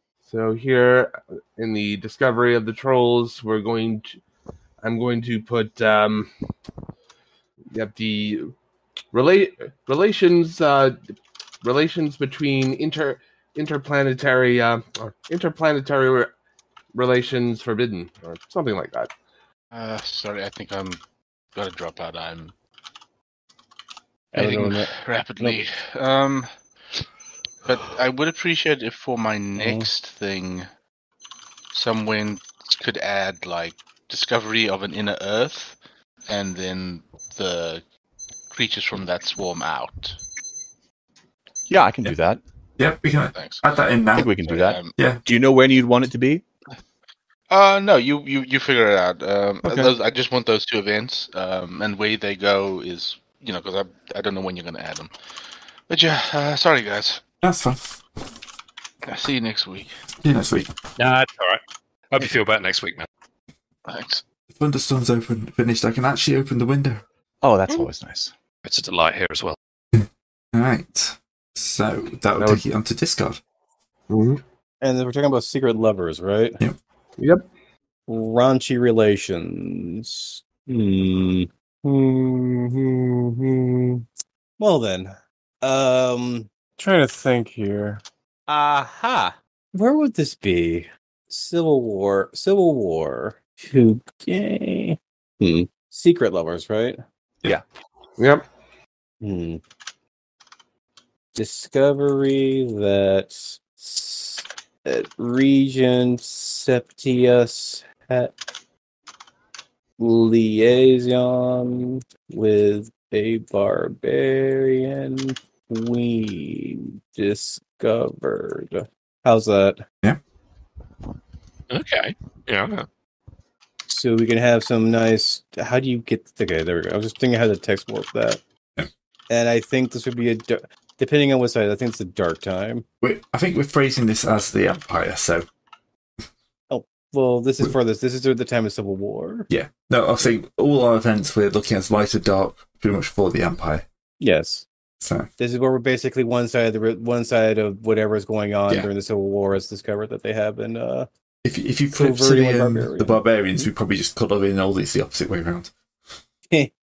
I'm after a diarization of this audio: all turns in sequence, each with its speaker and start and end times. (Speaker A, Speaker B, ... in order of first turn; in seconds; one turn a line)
Speaker A: 0.2-4.2
Speaker A: 4.8-6.3
Speaker A: 7.7-8.5
Speaker A: 9.1-16.3
Speaker A: 16.9-19.1
Speaker B: 19.7-21.0
Speaker B: 21.5-22.5
Speaker C: 24.3-25.6
Speaker B: 24.3-26.5
Speaker B: 27.6-30.7
Speaker C: 29.6-29.9
Speaker B: 31.7-37.8
Speaker B: 38.5-40.2
Speaker D: 41.7-42.4
Speaker E: 42.8-44.3
Speaker B: 43.3-43.6
Speaker D: 44.1-46.4
Speaker B: 44.4-44.9
Speaker E: 45.0-45.2
Speaker B: 47.5-55.1
Speaker D: 49.6-49.9
Speaker B: 55.9-57.2
Speaker E: 57.4-58.0
Speaker B: 59.0-59.9
Speaker E: 60.2-60.7
Speaker F: 61.0-63.1
Speaker B: 63.9-64.2
Speaker E: 64.5-67.0
Speaker D: 67.4-68.3
Speaker F: 68.6-69.5
Speaker E: 69.9-73.4
Speaker A: 74.1-74.4
Speaker C: 74.8-76.6
Speaker A: 77.2-77.5
Speaker C: 78.1-84.0
Speaker C: 84.6-88.0
Speaker D: 88.5-89.3
Speaker C: 89.7-97.0
Speaker A: 98.2-98.4
Speaker C: 99.2-99.6
Speaker C: 101.3-108.3
Speaker C: 110.0-119.8
Speaker F: 121.7-122.8
Speaker C: 123.9-128.4
Speaker C: 129.3-132.8
Speaker E: 133.0-135.4
Speaker C: 136.7-139.5
Speaker E: 139.5-143.8
Speaker C: 144.2-144.7
Speaker E: 145.0-145.3
Speaker C: 145.4-151.1
Speaker E: 151.4-155.7
Speaker C: 151.9-153.7